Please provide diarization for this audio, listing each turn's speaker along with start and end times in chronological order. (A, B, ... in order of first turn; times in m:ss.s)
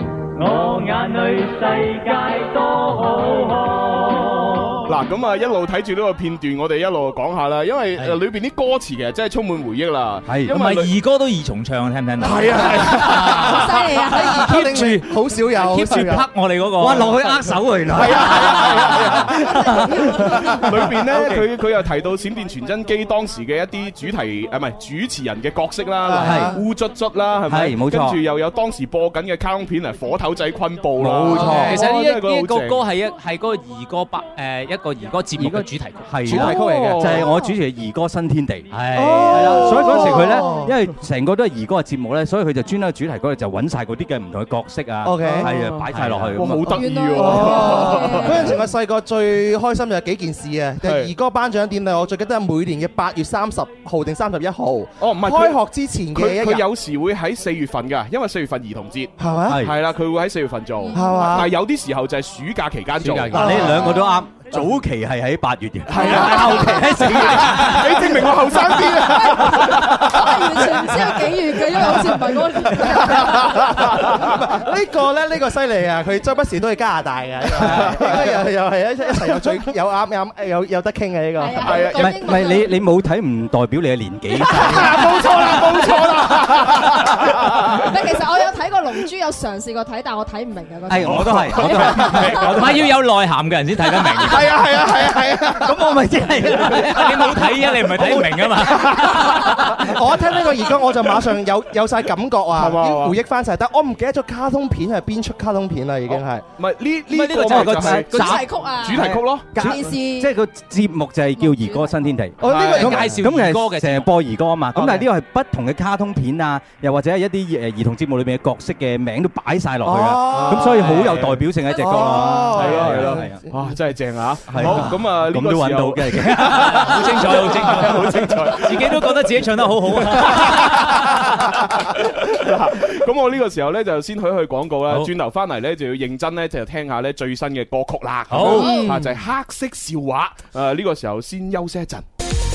0:00.4-0:04.8 A
0:04.9-0:10.9 B
0:10.2-0:10.5 C
0:10.5-0:17.4 D
0:12.2-0:14.0 B
0:13.4-0:14.4 E
0:14.2-0:16.3 F
0:16.8-0:21.5 C
0:17.9-0:19.3 B
0:18.0-0:19.2 F
0:20.5-0:32.8 B
0:26.0-0:26.6 F
0:26.2-0:26.6 C
0:27.4-0:28.2 C
0:31.0-0:31.8 C
0:31.2-0:31.7 F
0:31.6-0:36.8 D
0:35.4-0:46.8 C
0:36.2-0:37.3 B
0:36.6-0:37.2 F
0:38.7-0:40.1 D
0:38.9-0:40.7 F
0:45.0-0:45.5 F
0:45.4-0:48.6 B
0:45.9-0:46.4 D
0:46.7-0:56.6 F
0:46.7-0:48.6 E
0:50.8-0:51.1 B
0:55.0-0:55.6 B
0:56.1-1:03.6 B
0:59.2-0:59.6 F
0:59.5-0:59.8 C
1:00.8-1:01.2 E
1:00.9-1:01.5 F
1:03.0-1:03.8 D
1:03.3-1:08.2 C
1:03.3-1:04.1 F
1:05.9-1:10.3 B
1:06.0-1:10.0 F
1:06.2-1:06.8 E
1:09.1-1:13.8 E
1:12.9-1:22.0 F
1:13.7-1:14.3 B
1:17.6-1:18.2 C
1:17.6-1:18.1 B
1:21.4-1:22.7 E
1:21.6-1:22.2 B
1:21.9-1:25.6 C
1:24.6-1:27.9 B
1:24.6-1:25.1 E
1:27.8-1:32.5 E
1:30.9-1:32.8 C
1:31.0-1:32.6 B
1:32.4-1:34.5 D
1:34.2-1:35.6 B
1:34.3-1:35.3 F
1:35.5-1:37.4 C
1:36.6-1:39.7 D
1:37.9-1:38.5 C
1:39.0-1:39.6 B
1:39.8-1:46.4 F
1:42.5-1:43.2 B
1:46.1-1:49.5 B
1:47.1-1:48.4 D
1:47.4-2:03.4 C
1:48.1-1:50.3 E
1:51.4-1:52.0 E
1:52.4-1:53.2 F
1:52.4-1:52.9 B
1:52.5-1:54.1 D
1:54.7-1:55.0 F
1:59.8-2:01.0 F
2:00.6-2:01.2 D
2:01.0-2:01.3 B
2:01.7-2:03.6 F
2:01.9-2:09.2 B
2:04.5-2:08.3 C
2:04.6-2:04.8 F
2:06.4-2:11.6 D
2:10.1-2:11.2 B
2:11.9-2:22.0 B
2:18.3-2:18.8 D
2:18.4-2:19.0 E
2:18.6-2:19.1 F